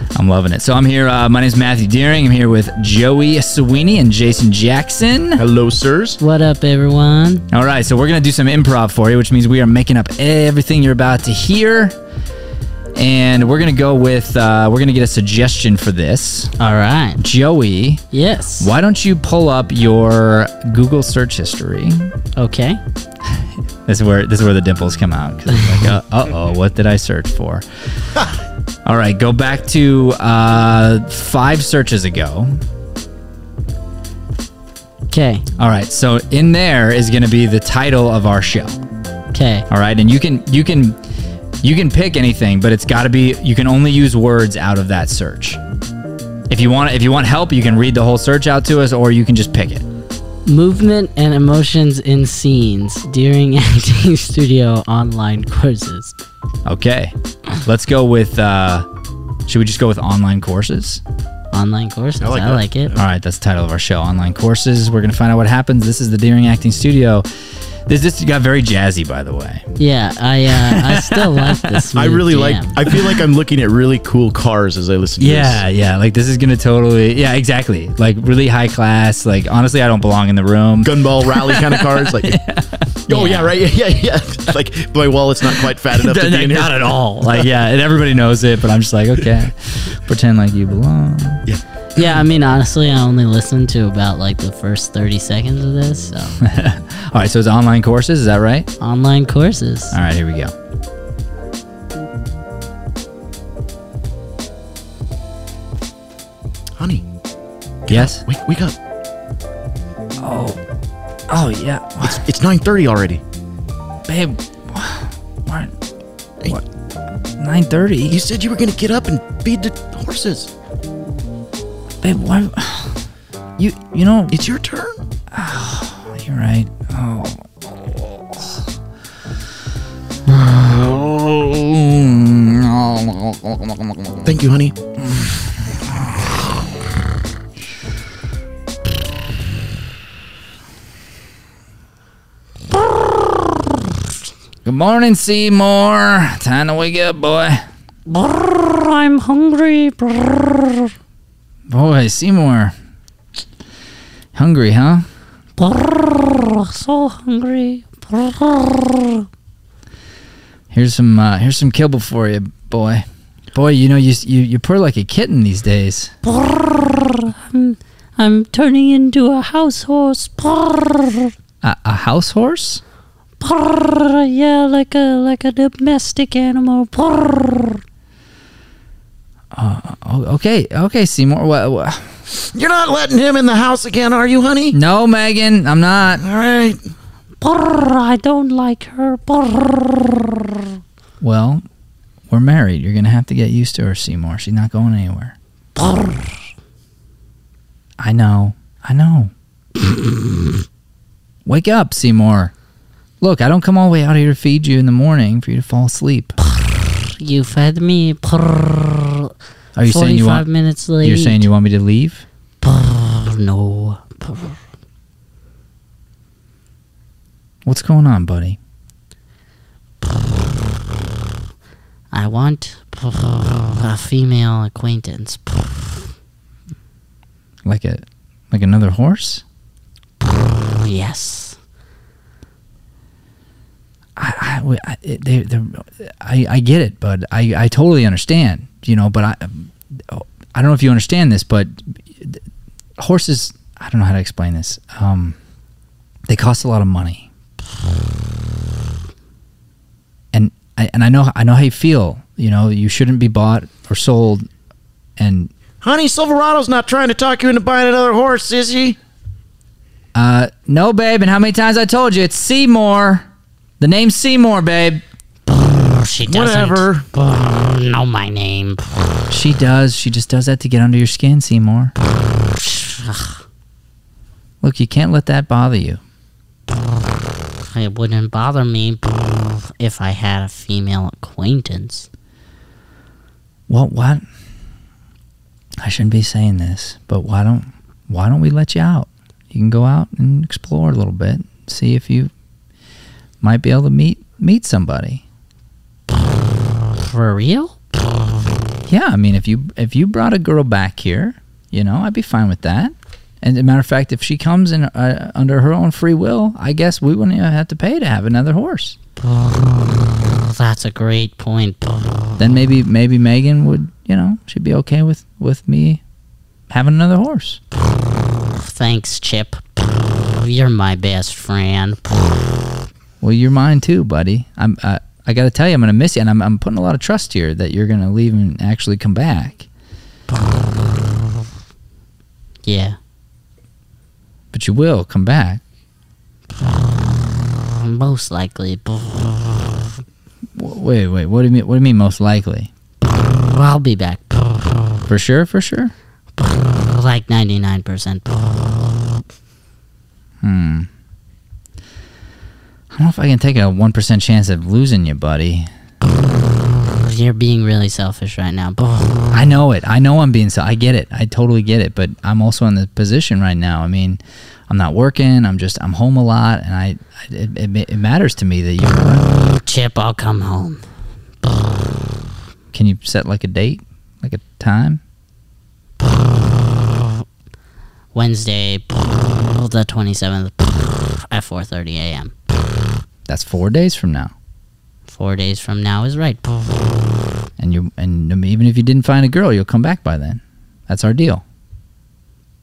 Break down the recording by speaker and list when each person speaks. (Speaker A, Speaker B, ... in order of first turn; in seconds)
Speaker A: 0.1-5.4, 7.5-12.0, 13.0-16.5, 17.2-18.0, 18.6-22.1, 23.4-28.2, 28.8-32.5, 35.6-38.8, 39.7-41.0, 41.6-45.6, 46.5-49.9, 56.6-58.9, 59.5-61.0, 63.0-67.2, 67.9-69.7, 70.5-71.8, 72.9-73.2, 75.2-83.2, 85.6-91.4, 96.4-98.7, 99.9-100.5, 107.9-108.2, 110.2-110.6, 111.3-112.2, 114.1-115.8, 117.4-118.2, 122.0-123.0, 123.6-124.4, 125.3-128.6, 130.2-134.3, 135.0-136.7, 144.6-147.7, 151.7-152.7, 154.3-155.1, 160.7-166.1, 171.6-172.8, 179.5-182.1, 184.7-186.2, 191.2-191.6, 192.3-195.3, 198.0-199.3, 201.4-202.5, 203.2-206.3, 209.8-210.4, 211.0-212.2, 217.6-218.6, 227.6-229.4, 234.2-242.4, 243.0-245.4, 246.3-247.3, 250.3-254.5, 255.2-255.5, 260.1-263.3, 263.8-265.0, 269.3-271.9, 274.6-276.0, 283.7-284.2, 285.8-292.3, 293.4-295.2, 298.9-309.0, 312.4-316.0, 316.7-317.6, 323.2-329.7, 334.5-335.6, 340.6-342.7, 345.1-345.9, 350.4-350.9, 352.9-355.7, 359.3-369.3, 372.7-375.0, 383.3-384.3, 387.6-391.4
Speaker B: 5.4-6.2, 62.2-63.0, 71.9-75.6, 80.8-82.4, 83.1-87.5, 106.8-107.0, 107.8-108.8, 112.0-113.2, 118.1-120.5, 124.3-125.0, 134.2-134.8, 182.4-184.8, 186.2-186.8, 255.8-259.0, 266.3-267.1
Speaker C: 6.2-7.5, 16.6-17.2, 18.1-18.7, 22.4-22.8, 35.1-35.5, 39.3-39.7, 50.5-56.1, 61.5-62.9, 69.8-72.8, 83.1-83.5, 92.0-96.4, 98.8-100.0, 148.1-150.9, 155.6-159.3, 166.2-171.3, 173.4-177.8, 187.4-190.7, 195.8-196.4, 199.8-200.5, 206.6-209.3, 209.8-211.5, 212.6-214.6, 222.1-226.1, 230.2-231.6, 265.5-268.9, 272.3-273.4, 277.6-282.1, 296.2-297.8, 309.2-312.4, 318.1-322.4, 330.3-330.6, 332.6-333.0, 336.6-339.9, 343.0-345.0, 346.4-349.1, 356.4-359.4, 369.2-370.8, 371.4-372.0, 378.1-382.3, 385.1-387.3